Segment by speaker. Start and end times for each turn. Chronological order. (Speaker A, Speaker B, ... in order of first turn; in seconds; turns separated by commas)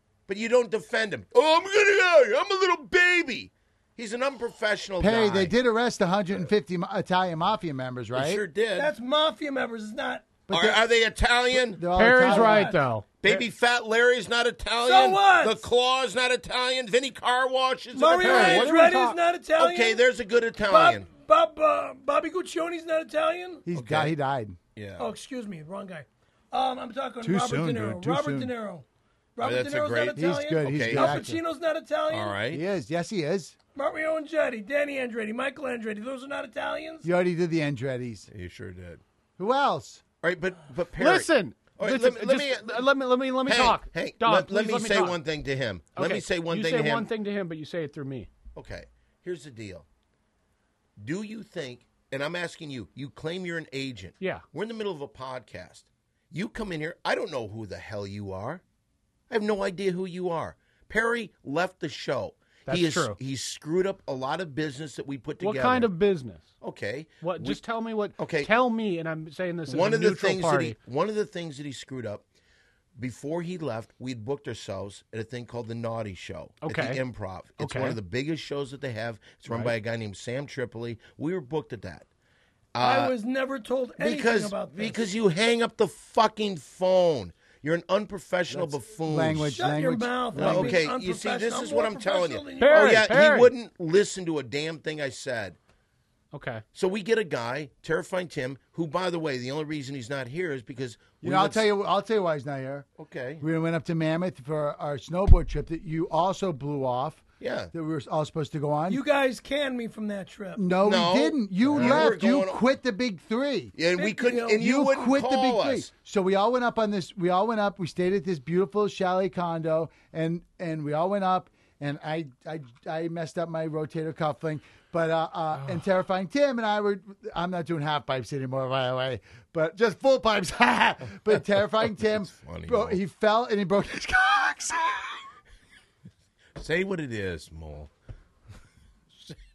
Speaker A: 0.3-5.5, Speaker B: 5.0-8.4, Speaker A: 8.1-8.9, Speaker C: 8.8-10.3, Speaker B: 10.5-10.8, Speaker A: 10.5-11.9, Speaker B: 11.5-12.8, Speaker D: 11.9-13.4, Speaker A: 13.2-18.8, Speaker C: 14.8-15.6, Speaker C: 17.9-20.0, Speaker D: 18.2-19.2, Speaker A: 19.6-21.1, Speaker C: 20.6-23.6, Speaker B: 23.6-24.6, Speaker A: 23.7-24.1, Speaker A: 24.8-25.1, Speaker C: 25.0-28.8, Speaker B: 27.2-28.5, Speaker C: 29.4-32.4, Speaker A: 29.4-31.2, Speaker B: 30.1-31.4, Speaker A: 32.1-32.6, Speaker B: 32.5-33.5, Speaker C: 33.7-37.1, Speaker B: 37.0-38.3, Speaker A: 38.3-39.0, Speaker B: 39.4-40.0, Speaker A: 40.2-42.9, Speaker D: 41.0-45.2, Speaker A: 43.4-47.1, Speaker D: 45.9-48.3, Speaker A: 48.5-49.9, Speaker A: 51.0-58.6, Speaker A: 59.3-65.9, Speaker D: 62.6-63.2, Speaker D: 65.4-66.5, Speaker A: 66.6-67.6, Speaker D: 67.2-70.8, Speaker A: 68.2-68.5, Speaker A: 69.7-72.2, Speaker A: 73.0-82.1, Speaker D: 76.6-77.0, Speaker D: 77.6-78.0, Speaker A: 82.7-83.1, Speaker C: 82.8-85.0, Speaker A: 84.0-89.6, Speaker B: 88.5-90.8, Speaker C: 89.5-93.1, Speaker A: 90.3-95.6, Speaker D: 92.6-93.5, Speaker D: 96.3-96.6, Speaker A: 96.7-101.7, Speaker B: 101.2-102.9, Speaker A: 103.0-103.4, Speaker B: 103.4-109.0, Speaker A: 107.4-107.7, Speaker C: 108.9-110.6, Speaker B: 110.5-113.7, Speaker A: 110.8-112.6, Speaker D: 111.7-112.0, Speaker A: 113.7-115.9, Speaker C: 113.9-114.6, Speaker B: 114.5-135.2, Speaker A: 132.0-133.0, Speaker A: 136.6-137.9